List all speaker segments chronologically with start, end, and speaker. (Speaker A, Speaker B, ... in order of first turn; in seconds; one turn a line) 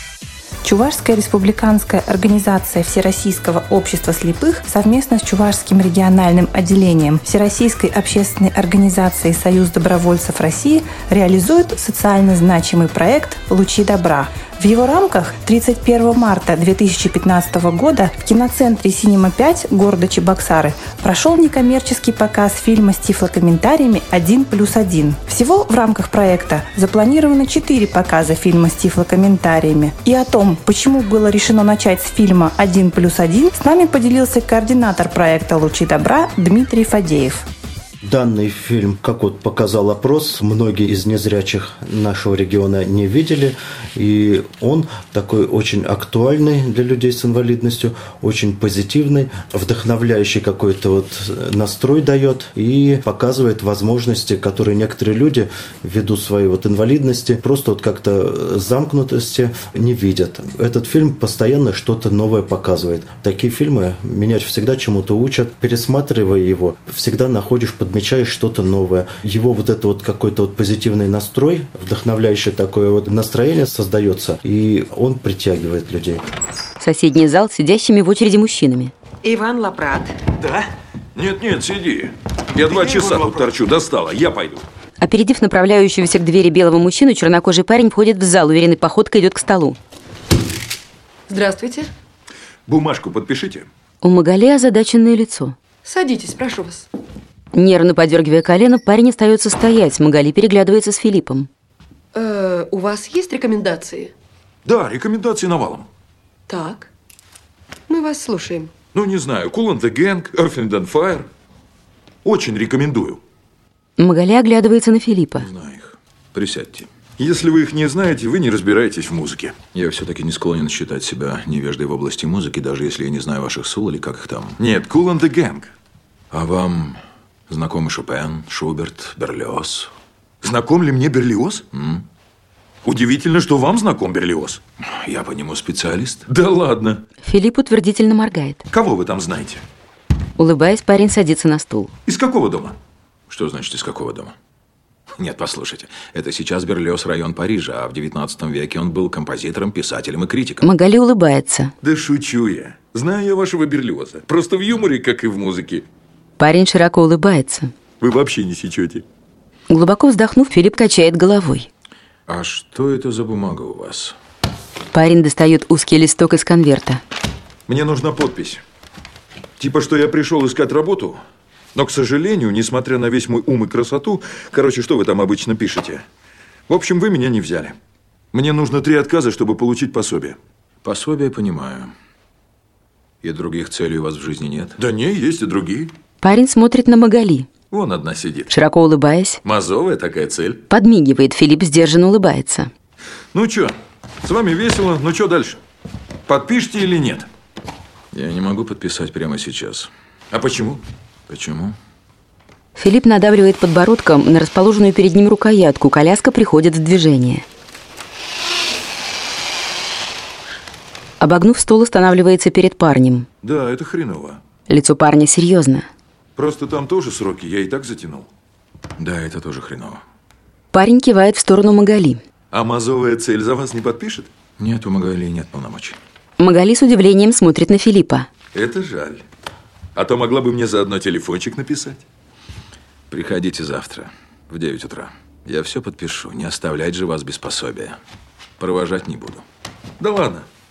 Speaker A: 0.6-37.5
Speaker B: 38.0-76.2
Speaker C: 76.8-78.9
Speaker D: 79.2-80.1
Speaker E: 81.1-84.6
Speaker C: 85.0-89.8
Speaker E: 92.7-93.7
Speaker C: 94.0-95.5
Speaker C: 97.5-101.5
Speaker D: 102.3-104.1
Speaker E: 104.6-105.9
Speaker E: 108.9-111.3
Speaker E: 112.2-113.2
Speaker C: 114.0-115.5
Speaker F: 115.4-116.9
Speaker E: 117.2-119.6
Speaker F: 119.7-124.6
Speaker E: 124.6-125.7
Speaker F: 126.3-127.0
Speaker F: 127.5-129.9
Speaker E: 130.4-131.6
Speaker F: 131.7-132.0
Speaker E: 132.8-134.6
Speaker F: 134.9-136.2
Speaker E: 136.3-137.0
Speaker C: 137.2-138.6
Speaker E: 138.7-139.6
Speaker C: 140.4-141.9
Speaker E: 142.1-142.8
Speaker F: 143.3-144.3
Speaker F: 145.2-150.6
Speaker C: 150.6-151.7
Speaker E: 151.8-155.8
Speaker C: 156.4-157.7
Speaker E: 158.0-159.0
Speaker C: 159.7-161.7
Speaker F: 162.3-164.1
Speaker C: 164.9-167.0
Speaker E: 167.7-168.6
Speaker E: 169.6-171.2
Speaker E: 171.7-176.0
Speaker E: 176.7-177.8
Speaker E: 178.3-180.4
Speaker F: 180.8-181.9
Speaker F: 183.2-184.8
Speaker E: 184.8-185.9
Speaker C: 186.2-187.5
Speaker E: 187.7-188.5
Speaker C: 188.5-189.4
Speaker E: 189.4-190.6
Speaker C: 190.7-192.7
Speaker E: 193.3-195.6
Speaker E: 196.3-197.3
Speaker F: 198.1-199.9
Speaker E: 200.3-200.8
Speaker F: 201.3-201.8
Speaker C: 202.8-207.4
Speaker C: 211.2-213.3
Speaker E: 213.4-214.4
Speaker C: 214.7-215.8
Speaker E: 216.3-218.3
Speaker F: 219.0-220.0
Speaker C: 220.7-222.2
Speaker E: 222.5-224.3
Speaker F: 224.6-226.0
Speaker C: 226.4-228.3
Speaker E: 228.5-229.2
Speaker E: 229.9-232.0
Speaker F: 233.1-238.0
Speaker F: 238.6-239.4
Speaker E: 240.0-240.4